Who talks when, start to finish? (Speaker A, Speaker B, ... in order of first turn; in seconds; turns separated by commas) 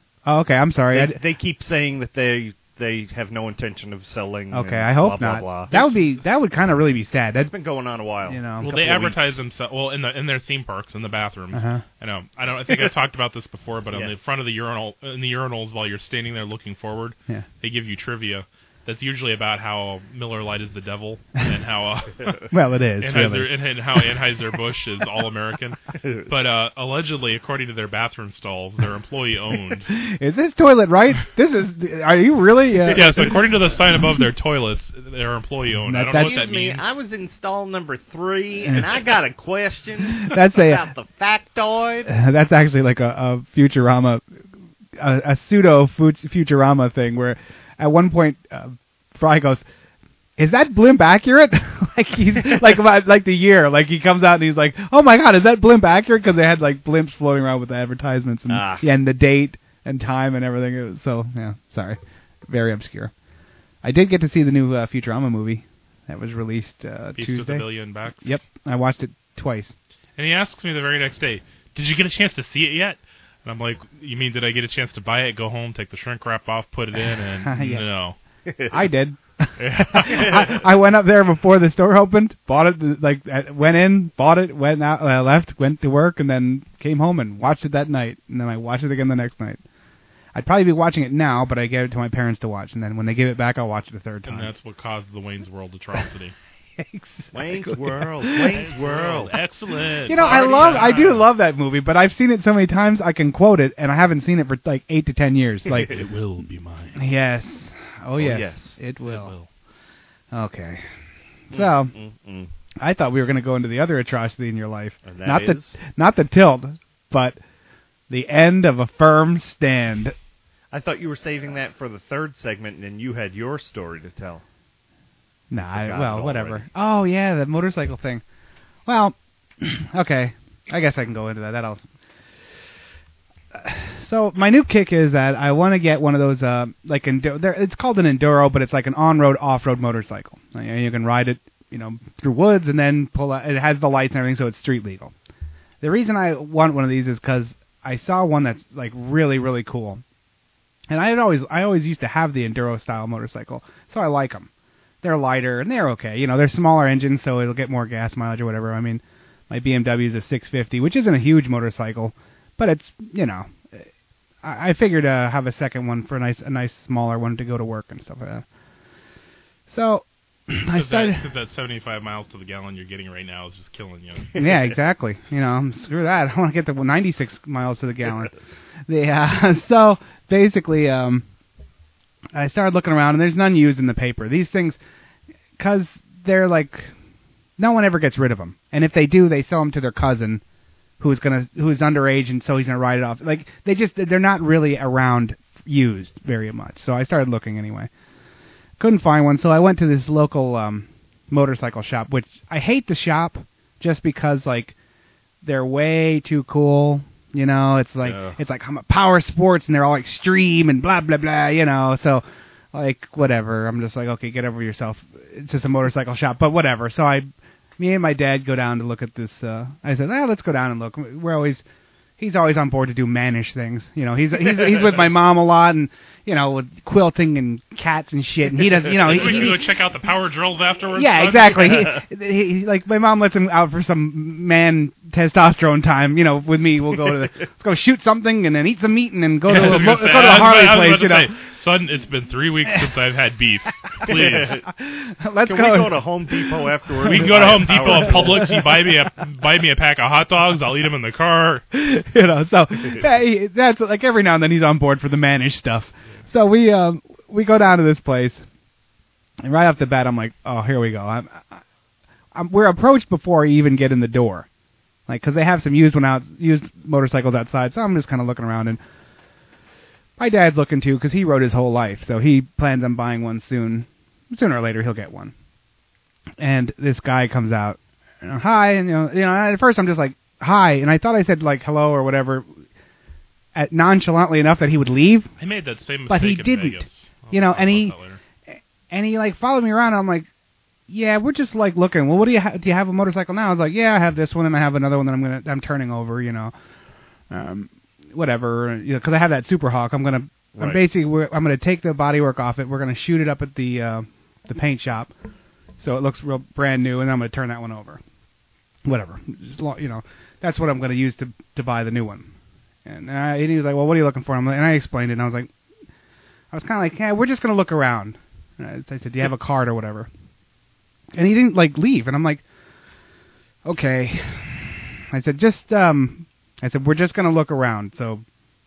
Speaker A: 0.2-1.2, Speaker B: 0.9-5.8, Speaker A: 4.5-7.5, Speaker B: 7.4-9.1, Speaker A: 8.3-9.2, Speaker C: 8.6-22.4, Speaker A: 11.5-11.8, Speaker B: 13.9-14.2, Speaker A: 22.5-23.5, Speaker C: 23.0-29.9, Speaker B: 26.0-26.3, Speaker A: 29.9-33.3, Speaker B: 32.9-33.2, Speaker C: 32.9-36.8, Speaker A: 35.9-36.4, Speaker B: 36.1-42.1, Speaker A: 40.1-40.8, Speaker A: 42.1-44.2, Speaker A: 45.0-49.6, Speaker A: 50.4-63.1, Speaker B: 58.5-58.8, Speaker A: 63.8-67.7, Speaker C: 67.2-68.4, Speaker A: 68.2-69.7, Speaker C: 70.2-78.2, Speaker A: 77.4-77.8, Speaker B: 78.5-78.8, Speaker A: 78.7-89.6, Speaker C: 79.6-80.4, Speaker B: 80.1-80.5, Speaker A: 90.3-94.5, Speaker C: 94.2-96.3, Speaker A: 96.8-98.5, Speaker B: 97.3-99.4, Speaker C: 98.5-101.3, Speaker A: 100.1-105.9, Speaker C: 105.9-107.0, Speaker A: 107.0-109.3, Speaker B: 108.2-108.8, Speaker C: 109.0-109.5, Speaker A: 110.3-110.8, Speaker A: 111.5-111.9, Speaker B: 111.5-112.5, Speaker A: 112.8-117.4, Speaker B: 115.0-115.8, Speaker A: 118.1-120.1, Speaker B: 120.7-124.4, Speaker A: 125.5-128.2, Speaker B: 125.7-126.6, Speaker A: 128.8-131.8, Speaker A: 133.5-145.1, Speaker A: 145.8-150.0, Speaker A: 150.9-154.5, Speaker A: 155.0-163.9, Speaker A: 164.4-168.4, Speaker A: 169.7-171.2, Speaker C: 170.7-174.3, Speaker A: 174.3-178.3, Speaker A: 178.9-181.2, Speaker A: 182.3-184.8, Speaker A: 185.6-186.9, Speaker A: 187.6-190.4, Speaker A: 191.0-197.9, Speaker A: 198.8-204.7, Speaker A: 205.4-221.6, Speaker B: 208.0-208.4, Speaker A: 222.2-229.6, Speaker C: 229.0-231.9, Speaker A: 230.9-241.3, Speaker C: 239.4-244.6, Speaker B: 244.0-244.7, Speaker A: 244.8-246.5, Speaker B: 245.4-248.6, Speaker A: 247.0-248.5, Speaker C: 247.1-251.6, Speaker A: 251.7-258.4, Speaker A: 259.4-261.6, Speaker A: 262.3-264.5, Speaker A: 265.1-268.8, Speaker A: 270.2-275.3, Speaker A: 276.4-282.5, Speaker A: 283.5-285.3, Speaker C: 285.4-288.2, Speaker A: 286.1-287.9, Speaker A: 288.9-290.3, Speaker A: 290.9-296.5, Speaker A: 297.3-305.1, Speaker A: 305.8-308.0, Speaker A: 308.8-312.3, Speaker A: 312.9-315.5, Speaker A: 316.5-320.1, Speaker A: 321.1-322.4, Speaker A: 323.6-328.2